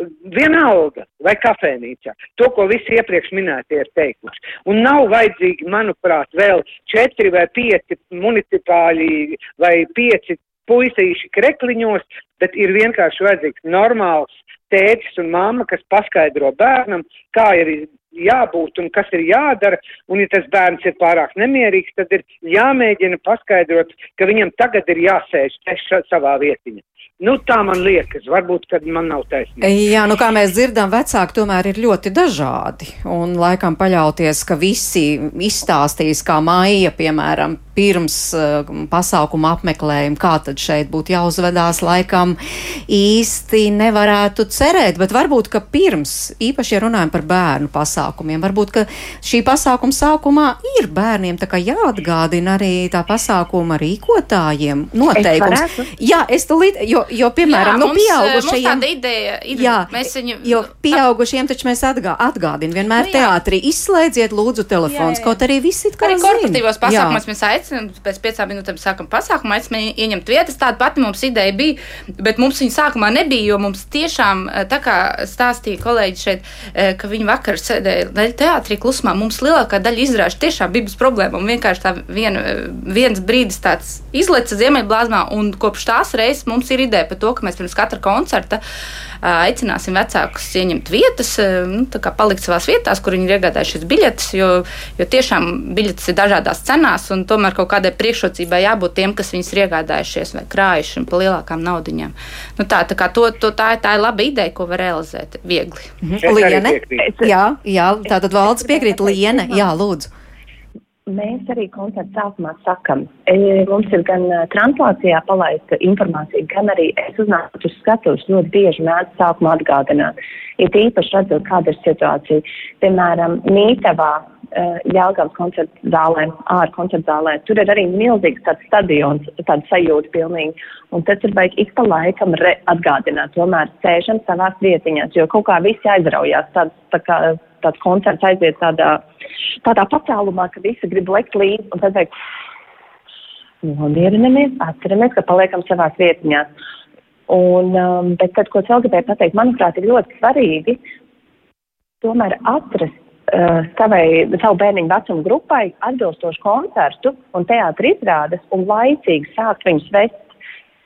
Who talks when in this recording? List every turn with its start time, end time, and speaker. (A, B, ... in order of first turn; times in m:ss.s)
0:00.2-0:29.7 A
0:29.6-0:42.4 B
0:42.9-0:58.8 B
0:55.2-0:55.9 C
0:57.4-1:01.0 D
0:59.5-1:07.2 B
1:02.9-1:03.3 D
1:04.9-1:05.4 D
1:06.0-1:28.6 D
1:29.2-1:45.9 D
1:46.0-1:50.1 B
1:46.2-1:47.1 A
1:48.5-1:49.7 C
1:51.1-2:19.0 C
2:19.6-2:22.1 C
2:23.6-2:26.5 C
2:27.3-2:30.8 C
2:32.0-2:40.2 C